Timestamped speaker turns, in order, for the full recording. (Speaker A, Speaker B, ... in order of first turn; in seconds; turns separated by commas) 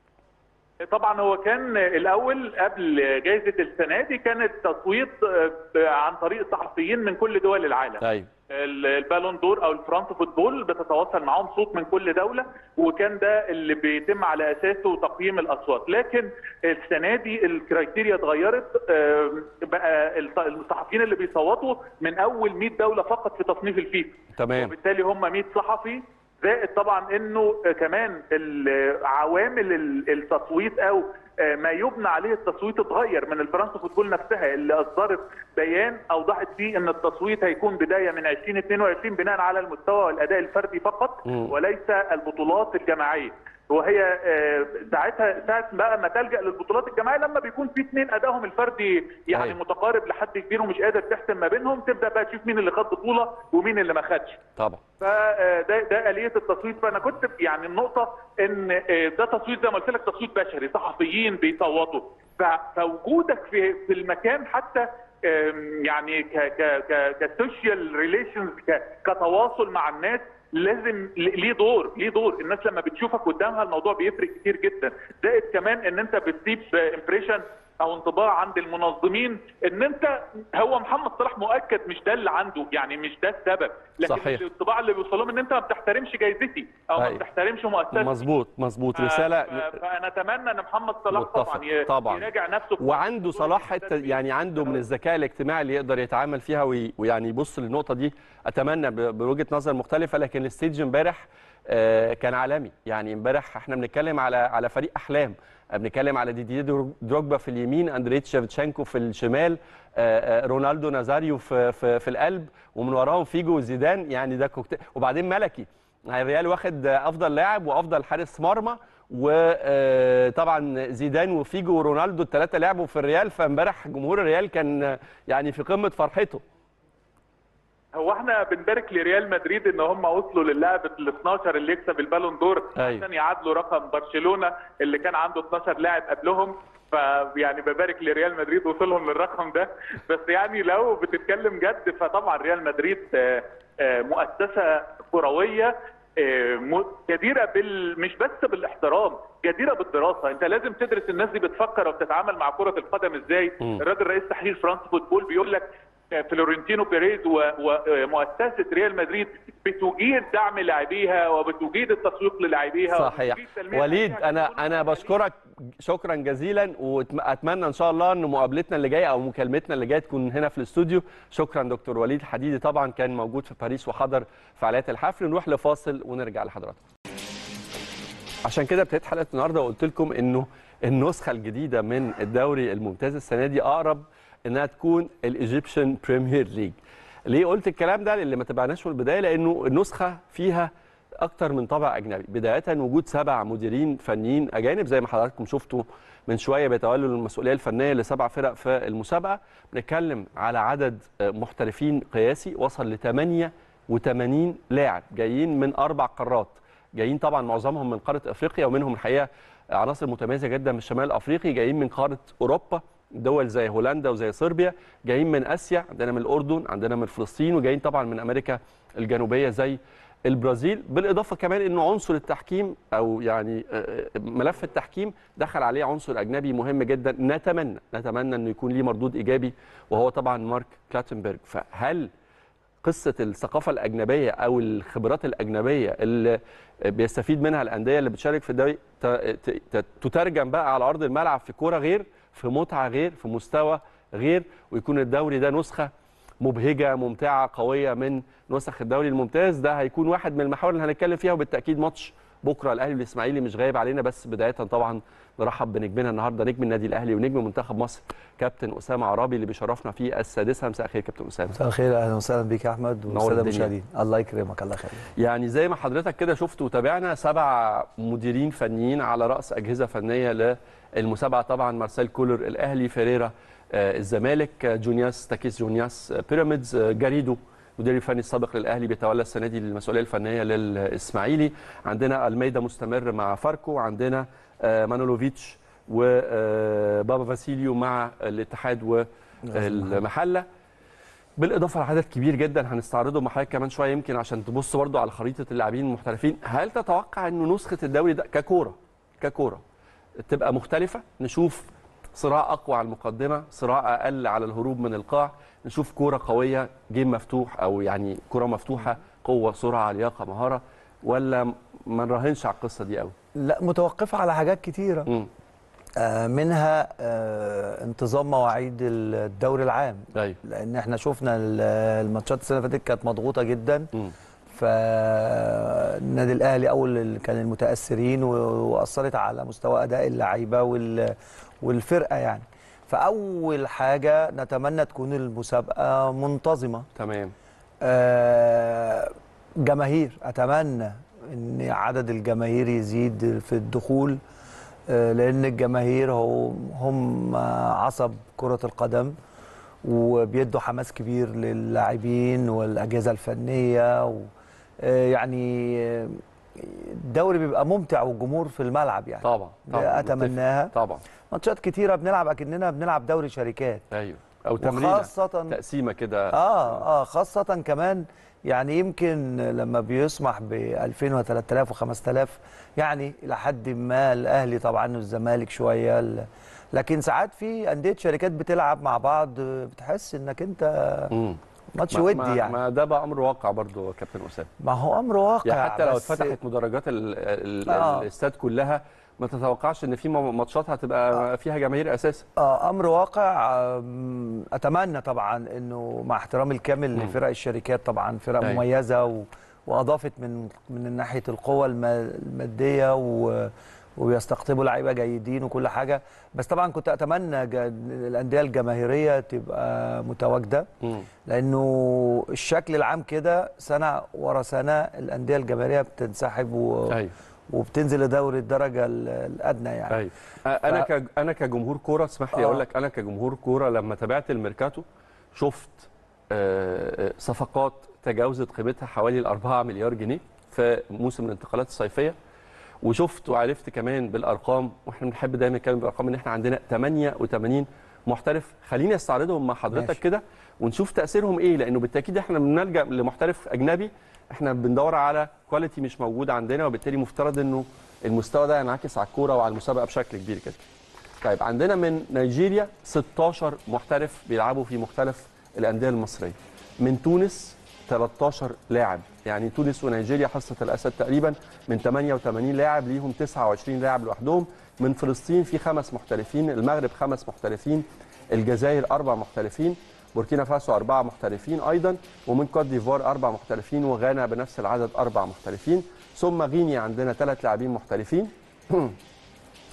Speaker A: 0.8-54.4, Speaker B: 8.0-8.3, Speaker B: 24.4-24.8, Speaker B: 41.3-41.5, Speaker B: 49.3-49.6, Speaker B: 54.6-54.8, Speaker A: 55.0-88.2, Speaker B: 84.0-84.5, Speaker B: 87.0-87.2, Speaker B: 87.9-89.8, Speaker A: 89.0-94.8, Speaker B: 91.1-92.3, Speaker B: 92.8-126.4, Speaker A: 128.0-165.2, Speaker B: 132.8-133.1, Speaker B: 162.9-176.8, Speaker B: 178.4-232.1, Speaker B: 232.8-261.6, Speaker C: 261.6-265.1, Speaker B: 263.1-263.7, Speaker B: 265.2-290.5, Speaker C: 289.5-290.0, Speaker B: 291.4-299.6, Speaker B: 300.2-313.1, Speaker C: 313.4-315.1, Speaker C: 316.0-323.9, Speaker C: 324.5-336.9, Speaker B: 336.9-337.3, Speaker C: 337.8-344.2, Speaker C: 344.9-349.2, Speaker C: 349.8-360.8, Speaker B: 359.2-361.0, Speaker C: 361.3-363.9, Speaker B: 363.9-366.8, Speaker C: 364.6-365.6, Speaker C: 366.3-381.1, Speaker B: 381.1-381.4, Speaker C: 381.7-382.6, Speaker B: 381.9-384.5, Speaker C: 384.6-386.4, Speaker B: 385.4-392.3, Speaker C: 387.7-388.1, Speaker C: 392.4-410.7, Speaker C: 411.3-417.0, Speaker C: 417.5-420.0, Speaker B: 419.9-424.8, Speaker C: 422.3-422.6, Speaker B: 425.4-432.2, Speaker B: 432.8-450.6, Speaker C: 439.7-440.0, Speaker B: 451.2-479.0